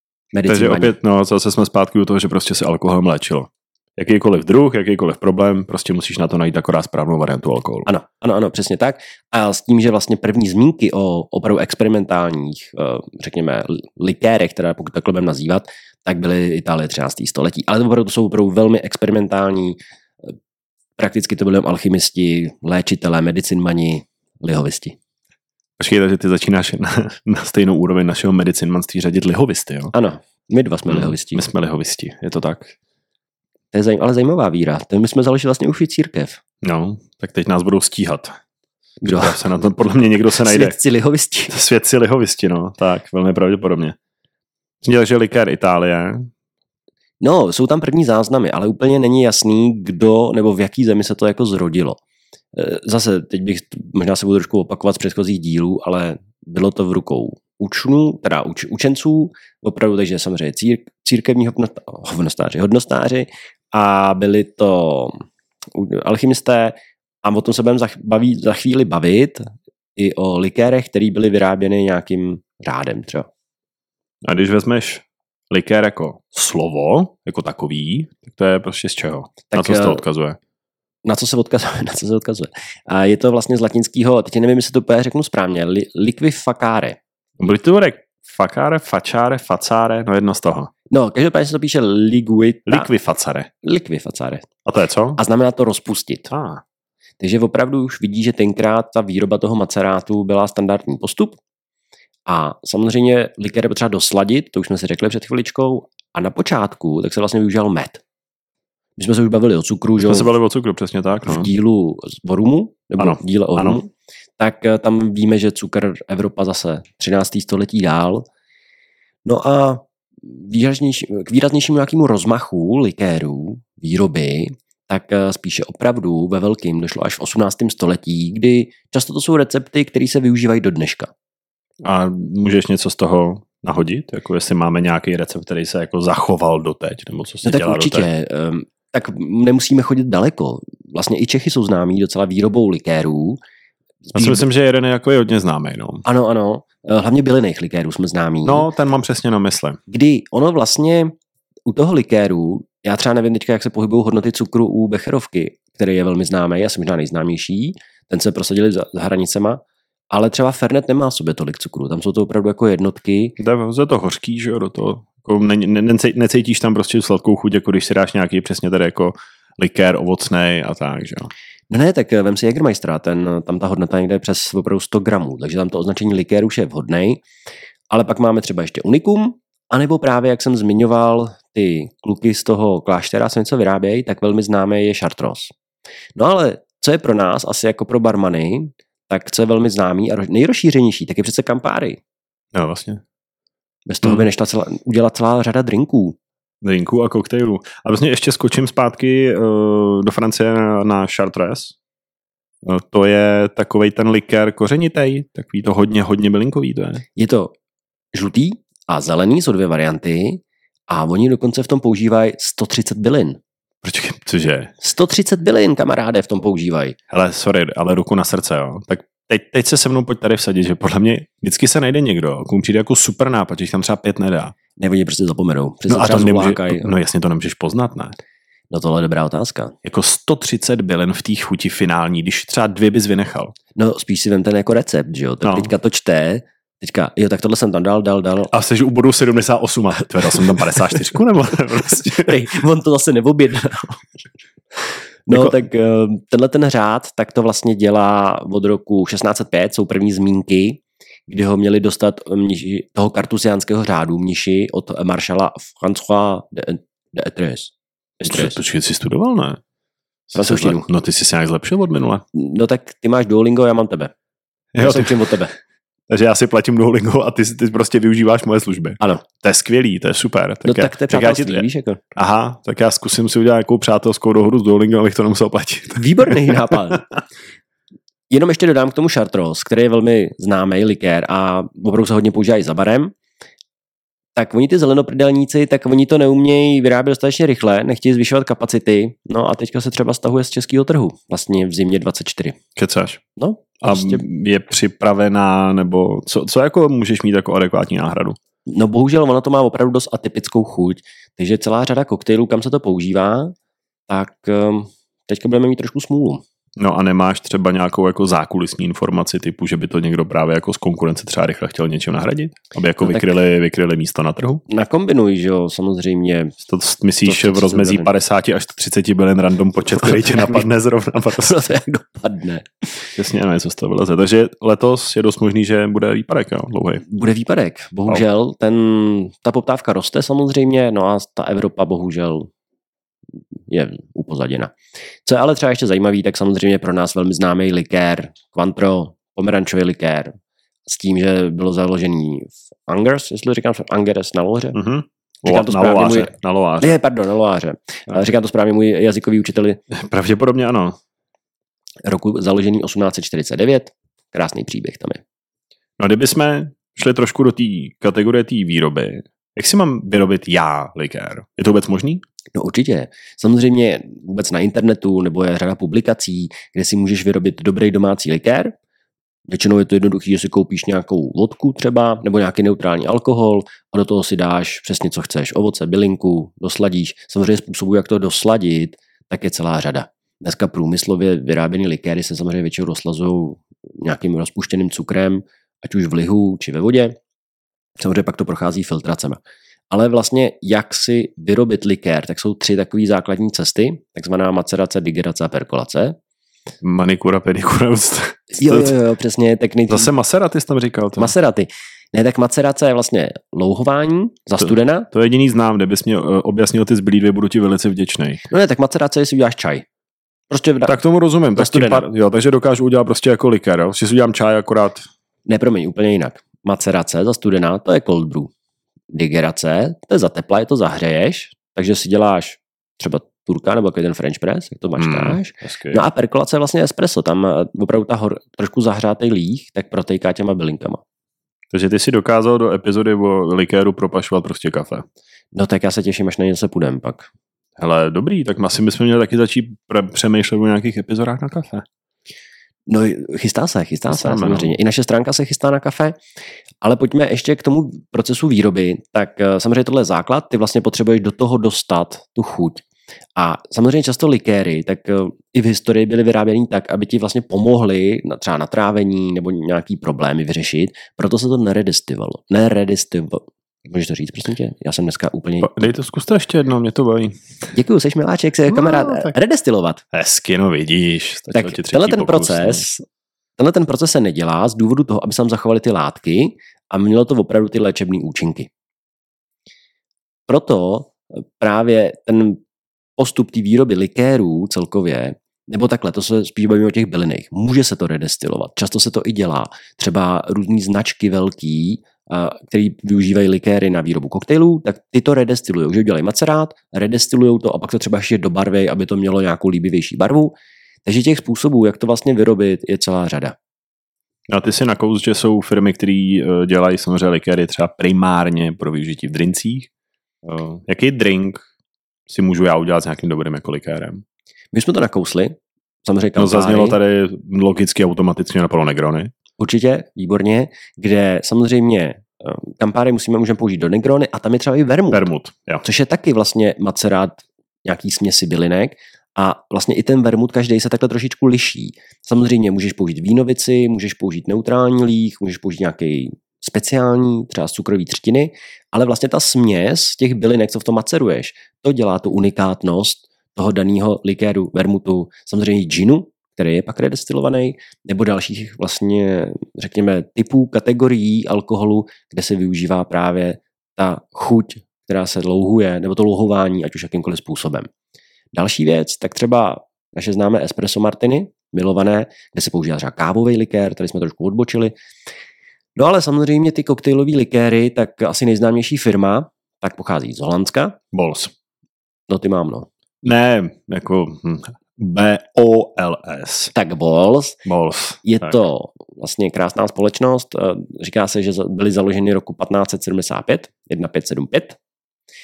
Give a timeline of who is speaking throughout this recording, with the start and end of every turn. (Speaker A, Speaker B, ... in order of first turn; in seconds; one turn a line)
Speaker A: 0.3-0.9
Speaker B: 0.5-7.9
Speaker A: 7.8-20.3
Speaker A: 21.0-24.9
Speaker B: 25.8-29.9
Speaker A: 29.9-31.4
Speaker B: 30.9-32.7
Speaker A: 33.7-36.4
Speaker B: 36.6-38.3
Speaker A: 39.0-39.4
Speaker B: 39.0-40.8
Speaker A: 40.4-41.5
Speaker B: 41.5-44.0
Speaker B: 44.8-46.3
Speaker A: 47.2-52.0
Speaker A: 52.5-73.3
Speaker B: 74.2-80.4
Speaker A: 79.5-80.0
Speaker A: 81.0-87.0
Speaker B: 87.4-90.7
Speaker A: 90.9-92.9
Speaker B: 92.7-93.5
Speaker A: 93.6-94.5
Speaker B: 94.6-95.2
Speaker A: 95.2-96.3
Speaker B: 96.3-96.6
Speaker A: 97.2-101.4
Speaker A: 102.3-108.0
Speaker A: 109.0-110.3
Speaker B: 110.0-111.5
Speaker A: 111.2-118.2
Speaker B: 113.0-113.8
Speaker A: 119.2-131.1
Speaker B: 131.8-138.1
Speaker A: 137.4-143.4
Speaker A: 144.1-144.4
Speaker B: 144.1-146.0
Speaker A: 146.0-148.7
Speaker B: 148.4-149.8
Speaker A: 149.9-151.1
Speaker A: 151.7-163.3
Speaker B: 163.4-171.3
Speaker A: 171.7-177.2
Speaker A: 177.9-185.5
Speaker A: 186.2-192.0
Speaker B: 192.5-193.0
Speaker A: 193.9-196.2
Speaker B: 196.6-201.7
Speaker B: 202.6-207.0
Speaker A: 207.2-207.5
Speaker A: 208.1-213.4
Speaker B: 213.8-214.7
Speaker A: 214.8-217.0
Speaker B: 217.1-224.5
Speaker A: 224.8-226.9
Speaker B: 225.9-228.2
Speaker A: 228.7-229.7
Speaker B: 229.8-233.5
Speaker A: 233.7-238.5
Speaker B: 235.4-235.7
Speaker B: 238.5-242.5
Speaker A: 241.9-244.1
Speaker A: 245.2-258.6
Speaker B: 245.3-245.6
Speaker B: 258.3-259.6
Speaker B: 260.3-262.2
Speaker A: 260.3-260.8
Speaker A: 262.3-264.1
Speaker B: 264.7-265.1
Speaker A: 264.8-265.5
Speaker B: 266.1-277.0
Speaker A: 270.6-272.0
Speaker A: 275.9-277.1
Speaker A: 278.3-283.1
Speaker A: 284.4-292.6
Speaker B: 292.8-293.2
Speaker A: 293.4-294.2
Speaker B: 293.8-298.4
Speaker A: 298.7-303.5
Speaker A: 304.1-306.4
Speaker B: 306.8-314.6
Speaker A: 313.0-313.3
Speaker A: 314.7-316.5
Speaker B: 316.6-321.6
Speaker A: 317.2-318.1
Speaker A: 320.0-320.6
Speaker A: 321.4-323.1
Speaker B: 323.1-327.0
Speaker A: 327.1-332.5
Speaker A: 333.7-340.3
Speaker A: 340.9-344.8
Speaker B: 344.7-347.0
Speaker A: 345.4-349.8
Speaker B: 349.9-351.0
Speaker A: 352.0-355.2
Speaker B: 356.0-362.2
Speaker A: 362.5-368.8
Speaker A: 369.5-387.1
Speaker A: 388.0-396.2
Speaker B: 396.8-398.9
Speaker A: 398.5-400.1
Speaker B: 399.9-401.3
Speaker A: 401.2-405.1
Speaker B: 404.6-408.4
Speaker A: 408.5-409.8
Speaker A: 410.5-411.0
Speaker B: 410.9-415.1
Speaker A: 411.5-412.1
Speaker A: 415.4-418.5
Speaker A: 419.1-431.0
Speaker B: 425.0-426.0
Speaker B: 431.7-435.0
Speaker A: 435.5-437.3
Speaker B: 437.8-441.9
Speaker A: 442.9-446.2
Speaker B: 444.1-444.8
Speaker A: 446.8-452.8
Speaker A: 453.4-465.9
Speaker B: 465.6-467.4
Speaker A: 467.7-470.0
Speaker B: 468.7-469.3
Speaker B: 470.1-472.8
Speaker A: 471.5-473.0
Speaker A: 473.6-478.7
Speaker A: 480.5-482.6
Speaker A: 483.2-503.6
Speaker B: 504.5-509.9
Speaker B: 510.4-511.6
Speaker B: 512.3-514.2
Speaker A: 514.7-517.0
Speaker B: 516.4-519.3
Speaker A: 519.6-525.3
Speaker B: 525.1-525.8
Speaker A: 525.8-557.9
Speaker A: 558.5-564.9
Speaker A: 566.0-571.0
Speaker B: 571.1-571.5
Speaker A: 572.3-572.9
Speaker B: 573.2-576.7
Speaker A: 576.7-577.6
Speaker B: 577.6-578.5
Speaker A: 578.2-584.8